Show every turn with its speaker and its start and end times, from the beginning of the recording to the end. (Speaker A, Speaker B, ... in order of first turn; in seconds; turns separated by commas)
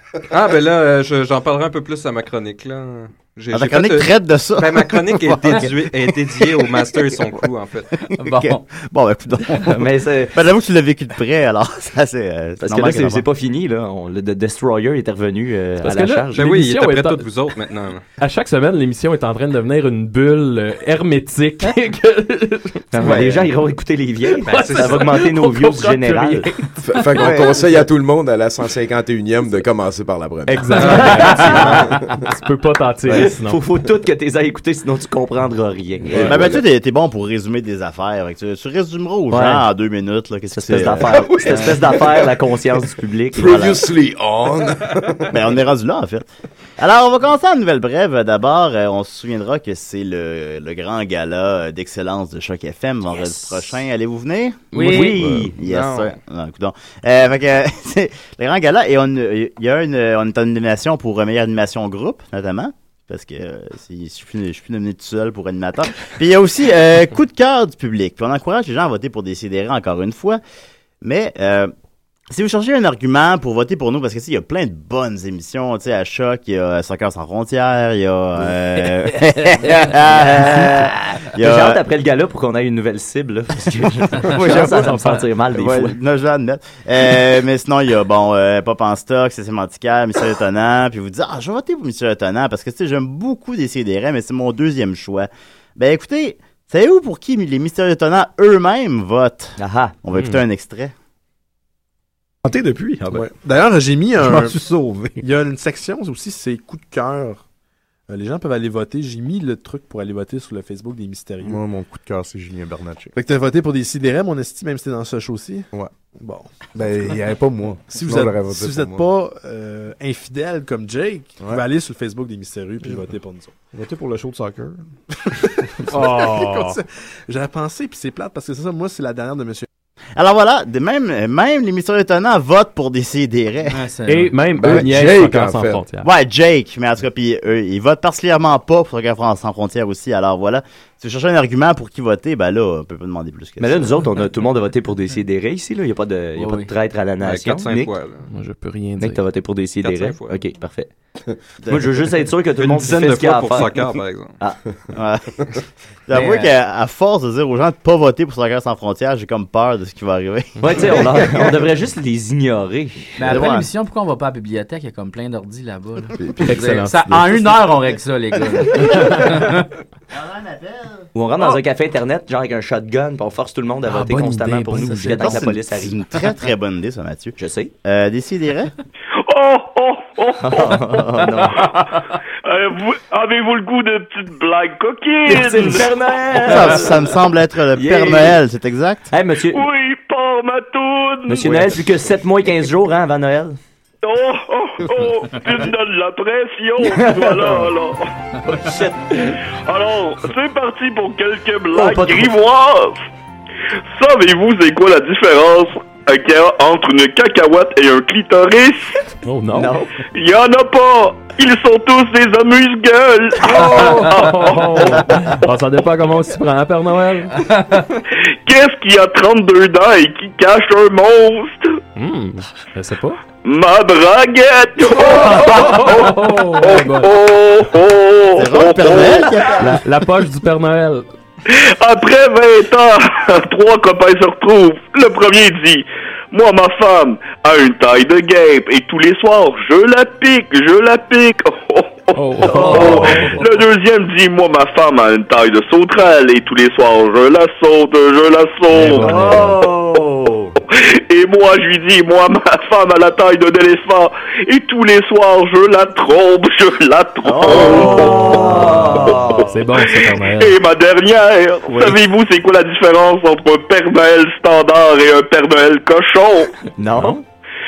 Speaker A: 0.3-7.9, Speaker B: 3.5-7.4, Speaker B: 7.9-13.3, Speaker C: 8.2-8.7, Speaker D: 9.7-10.4, Speaker D: 12.6-16.4, Speaker E: 15.8-17.3, Speaker A: 16.3-18.1, Speaker E: 18.2-23.3, Speaker D: 22.9-26.5, Speaker B: 23.0-23.3, Speaker A: 24.4-25.2, Speaker E: 24.4-27.3, Speaker F: 26.8-31.2, Speaker B: 27.1-27.7, Speaker E: 30.5-33.6, Speaker A: 30.8-31.1, Speaker D: 31.3-31.7, Speaker C: 31.4-31.8, Speaker D: 33.1-36.5, Speaker F: 36.1-36.6, Speaker B: 36.2-41.7, Speaker D: 39.3-39.6, Speaker D: 40.5-43.7, Speaker F: 41.1-42.4, Speaker F: 43.3-45.4, Speaker B: 43.4-43.8, Speaker B: 45.3-46.3, Speaker B: 46.8-70.4, Speaker C: 54.7-55.2, Speaker D: 54.8-55.5, Speaker A: 55.6-56.1, Speaker B: 71.0-71.7, Speaker B: 72.3-81.8, Speaker D: 81.4-86.0, Speaker B: 84.0-85.0, Speaker E: 84.3-85.2, Speaker B: 85.5-100.9, Speaker D: 99.6-100.0, Speaker E: 100.1-100.4, Speaker G: 102.5-103.2, Speaker H: 102.5-107.4, Speaker H: 108.1-111.8, Speaker G: 111.4-113.1, Speaker H: 113.1-123.7, Speaker G: 116.8-119.1, Speaker G: 123.7-124.8, Speaker H: 125.3-129.7, Speaker E: 125.9-126.8, Speaker B: 130.2-133.8, Speaker C: 133.7-134.5, Speaker E: 134.1-136.1, Speaker F: 134.6-135.8, Speaker B: 136.0-144.0, Speaker D: 143.6-147.9, Speaker C: 146.4-146.7, Speaker A: 147.2-148.3, Speaker E: 148.3-149.2, Speaker D: 149.0-150.9, Speaker A: 149.8-150.4, Speaker B: 151.7-152.0, Speaker D: 151.7-153.8, Speaker A: 152.6-154.3, Speaker B: 154.9-161.6, Speaker C: 156.1-156.5, Speaker D: 160.6-163.4, Speaker C: 163.2-169.7, Speaker B: 163.2-163.7, Speaker F: 166.2-166.6, Speaker E: 166.4-167.6, Speaker B: 168.3-169.2, Speaker E: 168.9-169.3, Speaker B: 170.1-171.1, Speaker D: 171.2-175.9, Speaker E: 173.9-175.5, Speaker B: 175.2-178.7, Speaker D: 177.4-177.7, Speaker I: 179.2-185.9, Speaker D: 180.4-181.8, Speaker D: 185.3-187.2, Speaker B: 186.3-189.1, Speaker D: 187.8-188.4, Speaker D: 189.1-189.7, Speaker I: 189.5-191.5, Speaker D: 191.3-193.6, Speaker I: 194.0-198.1, Speaker D: 196.8-197.7, Speaker D: 198.4-199.4, Speaker I: 199.3-203.0, Speaker D: 201.7-202.3, Speaker I: 203.9-209.0, Speaker E: 209.2-209.8, Speaker D: 209.5-209.9, Speaker I: 210.1-215.1, Speaker E: 213.4-217.5, Speaker C: 217.4-217.9, Speaker I: 218.1-221.8, Speaker E: 221.9-223.2, Speaker I: 223.4-229.4, Speaker E: 224.8-227.1, Speaker B: 228.3-229.8, Speaker E: 229.6-231.1, Speaker I: 231.4-249.2, Speaker E: 242.2-243.4, Speaker C: 242.4-243.4, Speaker D: 242.6-243.2, Speaker E: 248.7-249.6, Speaker D: 248.9-250.6, Speaker I: 250.7-259.2, Speaker D: 257.2-259.5, Speaker B: 257.4-259.1, Speaker E: 259.5-260.6, Speaker I: 259.8-266.5, Speaker B: 261.7-262.0, Speaker D: 266.8-267.2